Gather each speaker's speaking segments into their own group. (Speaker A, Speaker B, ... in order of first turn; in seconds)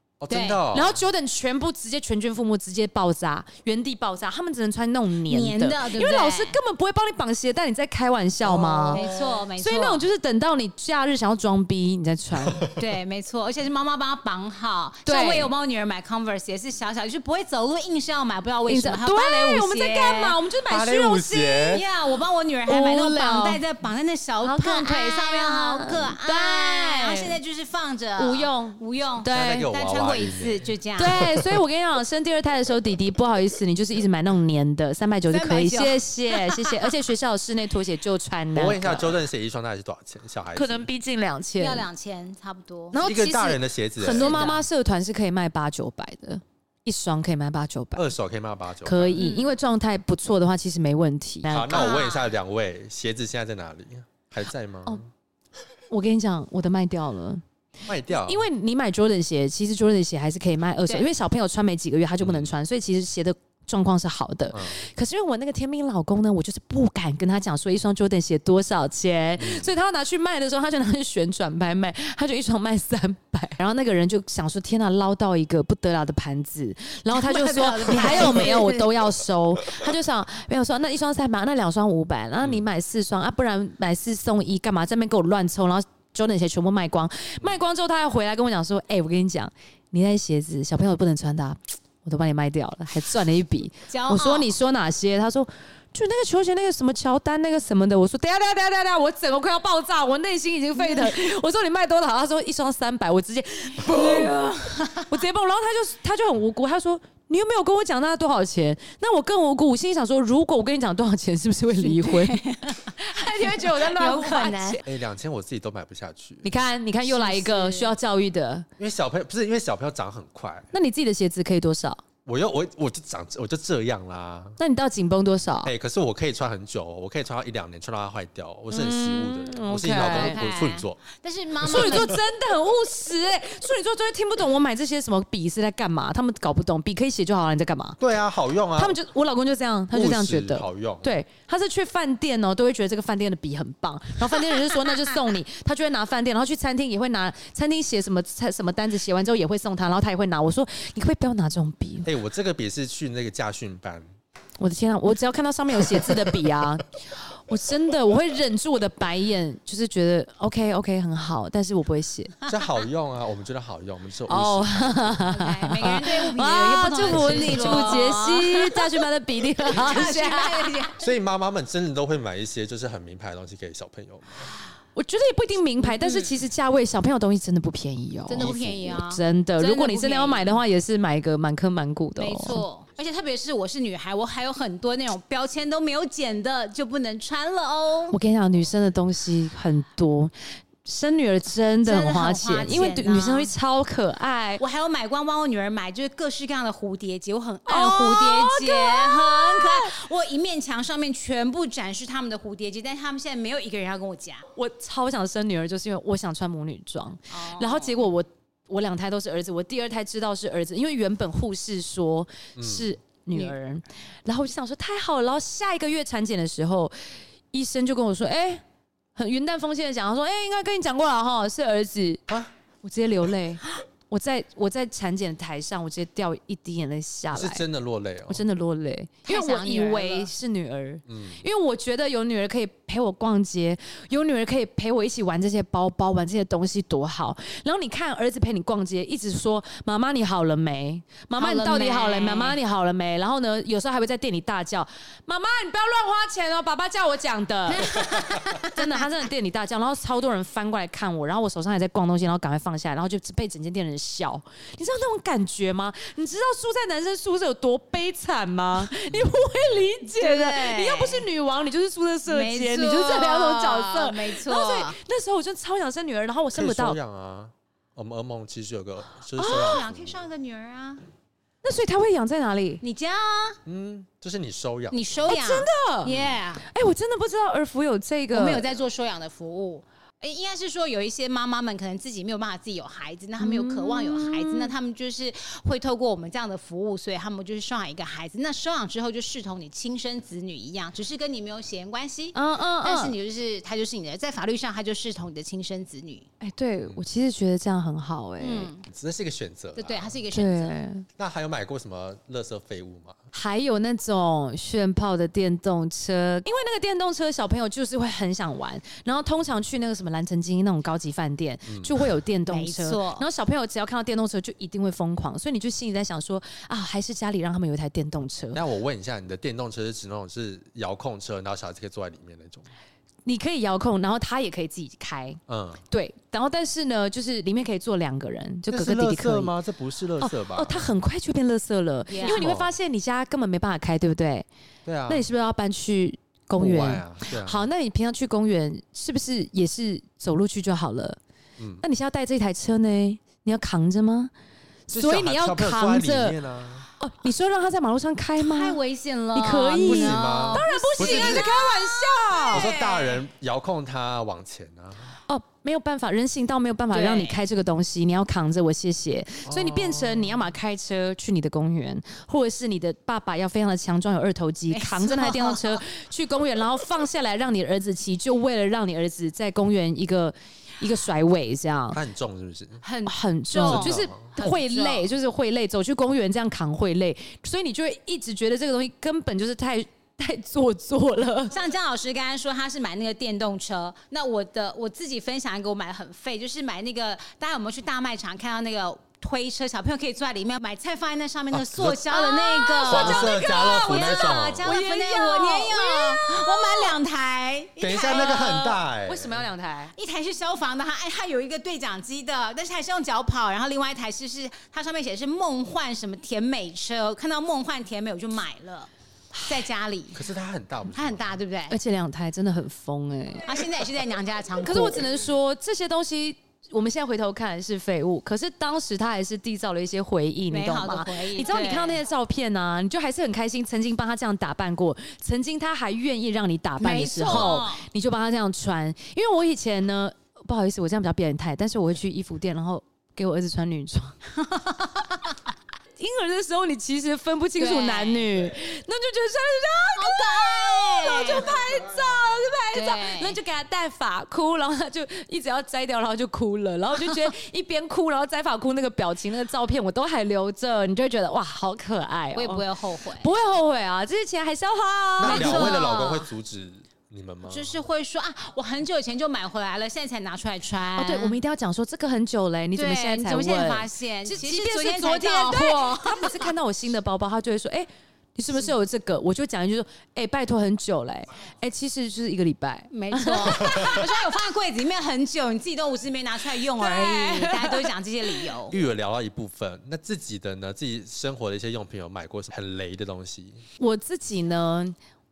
Speaker A: 0.2-1.0, 8.4-9.4, 20.7-21.8, 29.2-31.5, 38.5-40.9, 43.0-44.5, 48.0-49.2, 51.5-55.1, 57.9-58.4, 62.2-62.5, 64.5-64.8, 69.4-69.7, 114.8-116.5, 118.8-120.7, 122.2-124.6, 125.6-131.0, 131.7-132.1, 138.0-139.0, 139.9-141.2, 152.0-154.1, 162.5-165.3, 171.0-174.5, 178.4-178.9, 212.6-212.9, 227.3-228.4, 231.1-231.4, 259.0-259.7, 266.5-270.2, 273.7-275.2, 276.1-276.4, 298.9-300.2, 301.2-303.2, 311.7-311.9, 318.5-322.7, 325.5-325.8, 328.7-330.9, 332.2-332.7, 334.9-335.3, 336.6-337.7, 341.6-341.8, 344.9-346.9, 349.8-351.6, 352.5-355.1, 359.4-360.5, 371.9-372.8, 373.6-374.3, 391.5-392.1, 392.9-394.7, 397.8-399.5, 410.1-411.4, 455.2-457.8, 478.7-483.6
Speaker B: 0.3-0.7, 5.3-6.6, 8.9-10.0, 12.8-20.4, 21.7-31.3, 35.3-36.9, 41.6-43.0, 44.1-44.6, 49.2-49.5, 51.7-52.3, 77.1-79.0, 93.9-94.5, 103.8-105.1, 111.8-114.8, 117.1-117.9, 130.0-132.2, 165.3-168.9, 169.7-171.1, 175.8-176.4, 178.3-180.6, 182.2-188.2, 191.8-193.5, 194.6-204.5, 207.3-208.1, 229.2-230.3, 241.4-242.6, 247.7-249.0, 260.1-261.2, 262.3-264.9, 269.4-271.1, 272.8-273.6, 274.9-276.6, 278.3-296.3, 298.4-298.9, 299.8-300.8, 312.5-313.3, 332.1-332.5, 348.4-353.2, 356.9-357.4, 364.7-365.8, 372.8-375.1, 381.5-398.8, 400.0-410.2, 410.9-411.8, 413.4-415.1, 420.5-422.0, 426.8-427.9, 434.3-435.4, 437.6-438.3, 439.9-441.5, 442.7-443.4, 452.3-453.3, 455.2-456.3, 457.5-461.4, 462.8-466.5, 472.9-478.8
Speaker C: 0.7-9.1, 9.6-12.6, 15.1-15.5, 18.7-21.8, 22.7-23.6, 24.4-27.4, 28.2-29.7, 31.0-39.2, 40.5-41.9, 42.9-48.1, 48.9-52.0, 55.9-57.4, 58.1-104.5, 105.1-112.4, 113.0-114.8, 116.4-118.7, 120.7-122.0, 124.6-125.7, 128.7-130.4, 131.6-138.0, 138.8-152.1, 154.6-162.3, 164.3-170.8, 174.9-182.6, 188.1-190.3, 190.8-194.6, 197.7-200.0, 204.6-216.9, 217.5-218.6, 219.2-222.2, 222.8-227.6, 228.3-267.0, 269.4-269.8, 271.6-272.8, 275.3-278.7, 283.4-284.7, 292.4-293.2, 296.4-298.7, 300.3-301.1, 303.3-318.6, 323.2-329.5, 330.2-334.5, 335.1-341.2, 341.8-344.3, 344.9-346.4, 347.0-348.8, 349.3-352.7, 355.3-372.0, 373.1-381.6, 392.1-397.0, 398.1-399.9, 411.7-413.6, 414.6-434.2, 436.0-455.9, 461.0-473.9, 476.8-477.9, 483.8-485.0